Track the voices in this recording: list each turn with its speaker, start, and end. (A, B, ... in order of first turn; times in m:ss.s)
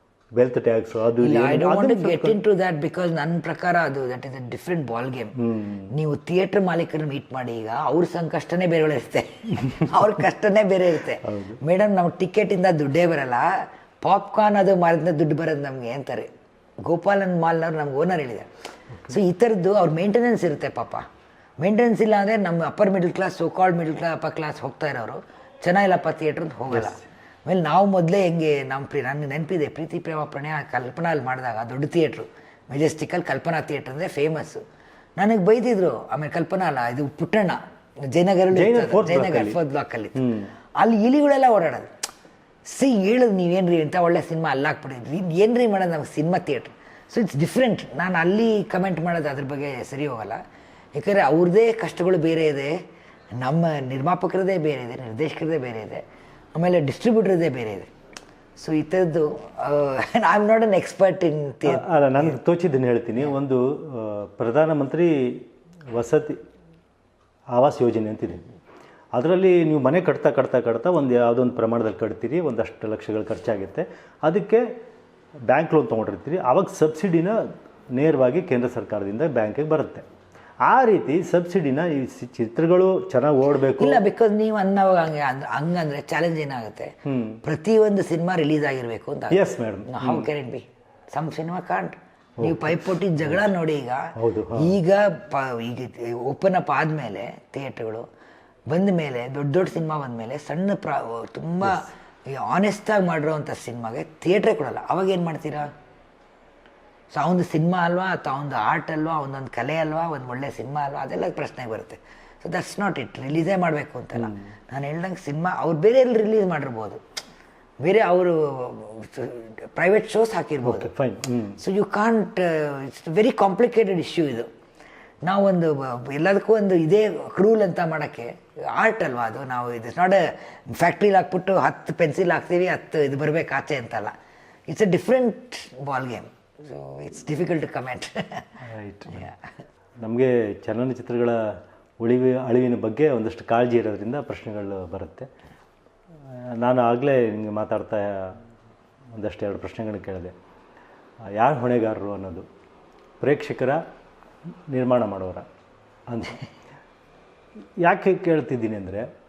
0:00.3-0:02.4 A
0:01.2-0:05.3 B
0:05.4-0:05.9 A
0:05.9-0:13.5 B
0:11.3-0:11.6 A
0:14.0-0:16.3 B
0:16.8-0:18.5 B
0:19.1-0:21.0 B
0:21.6-0:34.6 B
0:26.7-0:27.0 A
0:35.2-0:40.2 B
0:38.5-0:39.6 A
0:40.1-0:40.5 A
0:40.8-0:41.9 B
0:42.7-0:50.4 B
0:50.9-0:52.7 B
0:53.3-0:56.0 B
0:56.5-0:57.9 B
0:58.6-1:02.4 B
1:01.6-1:06.4 A
1:07.5-1:08.4 A
1:09.1-1:14.6 A
1:15.5-1:17.4 A
1:17.9-1:20.0 A
1:20.6-1:24.0 A
1:23.8-1:38.0 B
1:27.1-1:27.4 A
1:29.3-1:30.3 A
1:32.4-1:33.5 A
1:34.2-1:34.8 A
1:38.7-1:45.7 B
1:47.1-1:57.0 B
1:57.8-2:00.9 B
2:00.6-2:01.6 A
2:01.6-2:04.5 B
2:05.2-2:14.1 B
2:14.7-2:18.4 B
2:18.6-2:19.3 A
2:19.1-2:19.4 B
2:20.0-2:21.4 A
2:22.0-2:25.3 A
2:26.3-2:28.4 A
2:29.1-2:30.3 A
2:31.3-2:32.4 A
2:33.2-2:33.8 A
2:34.7-2:35.5 A
2:36.1-2:36.4 A
2:37.8-2:39.1 A